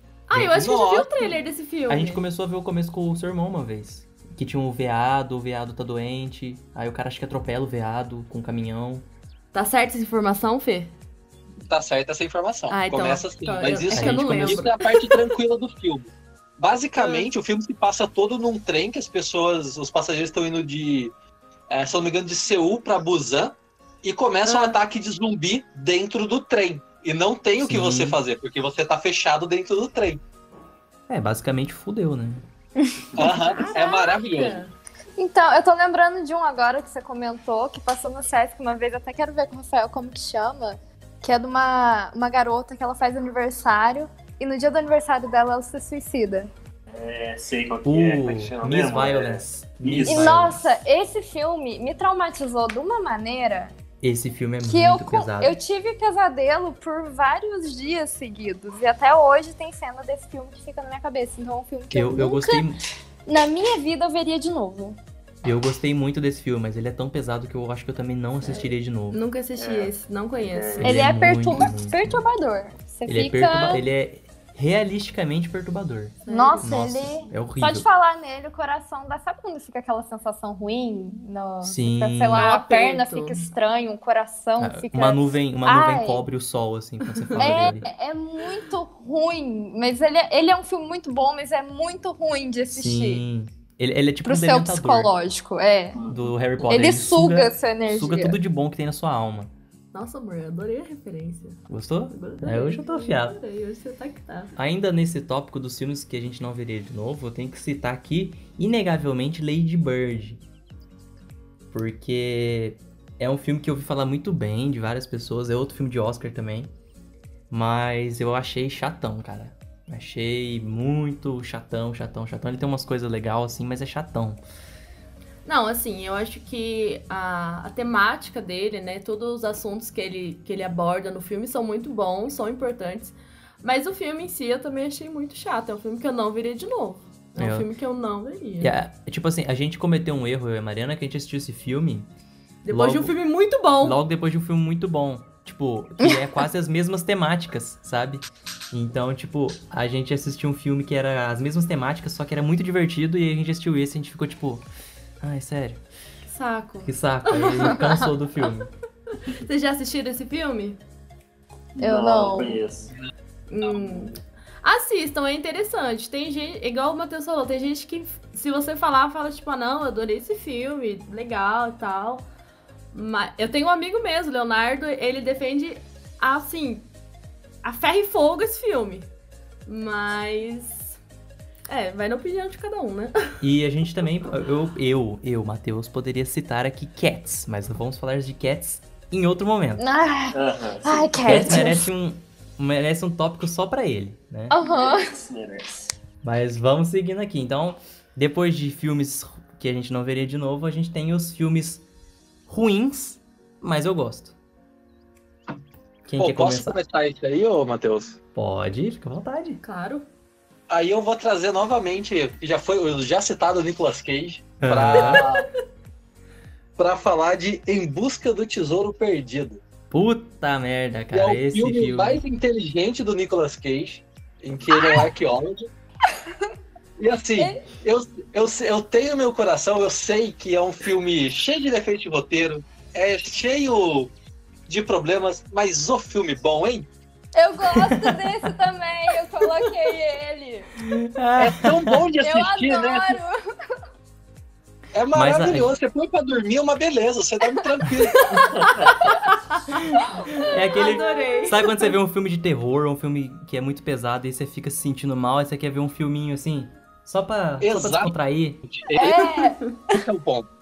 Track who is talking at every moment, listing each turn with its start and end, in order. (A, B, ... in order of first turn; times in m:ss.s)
0:00.3-0:02.2 A
0:00.4-0:01.4 B
0:01.9-0:09.0 C
0:09.5-0:10.9 A
0:11.7-0:21.1 B
0:12.7-0:15.2 A
0:13.9-0:14.6 C
0:17.0-0:17.3 A
0:21.7-0:30.2 B
0:24.4-0:24.8 A
0:27.6-0:28.2 C
0:31.1-0:32.4 C
0:32.8-0:33.1 D
0:33.2-0:34.6 B
0:33.2-0:34.7 A
0:35.2-0:46.5 D
0:46.9-0:50.5 E
0:47.8-0:50.6 C
0:50.0-0:53.8 D
0:54.0-0:55.6 C
0:54.7-1:02.6 D
1:01.9-1:02.8 C
1:03.3-1:05.0 D
1:05.4-1:09.2 C
1:08.4-1:10.9 A
1:09.6-1:10.9 E
1:10.8-1:12.2 C
1:10.8-1:13.8 D
1:13.1-1:17.9 C
1:16.3-1:16.8 A
1:16.3-1:26.2 D
1:21.6-1:22.5 C
1:22.3-1:23.5 A
1:24.6-1:27.9 C
1:27.4-1:33.2 D
1:32.7-1:35.1 C
1:34.2-1:36.0 D
1:36.0-1:36.3 E
1:36.1-1:39.5 C
1:36.7-1:38.4 D
1:39.9-1:44.5 A
1:41.7-1:43.4 C
1:44.6-1:50.4 C
1:51.7-1:56.7 C
1:57.5-2:04.4 C
2:05.4-2:18.8 A
2:17.4-2:17.7 C
2:18.6-2:22.1 C
2:22.6-2:24.0 A
2:22.7-2:23.2 C
2:23.8-2:34.7 C
2:35.2-2:35.8 C
2:36.3-2:37.8 A
2:36.8-2:38.7 C
2:39.2-2:40.8 A
2:41.8-2:42.6 D
2:41.8-2:42.9 E
2:43.5-2:52.3 A
2:52.9-2:56.9 A
2:57.6-2:59.1 A
2:59.6-3:01.0 A
3:01.7-3:03.4 A
3:03.4-3:09.8 C
3:09.8-3:11.8 D
3:10.3-3:11.6 E
3:11.2-3:14.5 C
3:14.5-3:15.1 D
3:14.6-3:16.0 E
3:16.2-3:21.8 C
3:22.5-3:24.4 C
3:26.1-3:26.8 C
3:26.2-3:28.2 B
3:28.4-3:29.6 C
3:29.6-3:30.1 A
3:30.7-3:35.5 B
3:34.6-3:35.2 C
3:36.8-3:39.6 B
3:39.9-3:42.2 C
3:41.1-3:45.7 B
3:44.7-3:45.1 D
3:47.0-3:54.1 B
3:47.4-3:47.6 D
3:54.7-3:56.9 B
3:57.4-4:00.7 D
3:57.6-3:58.5 C
4:00.8-4:02.0 C
4:01.4-4:03.2 B
4:02.2-4:03.4 D
4:04.9-4:09.1 B
4:05.1-4:05.8 C
4:08.6-4:08.8 E
4:09.1-4:09.7 A
4:09.8-4:18.6 C
4:10.8-4:11.7 A
4:10.8-4:11.3 D
4:17.6-4:19.4 B
4:18.9-4:19.7 D
4:19.9-4:20.5 B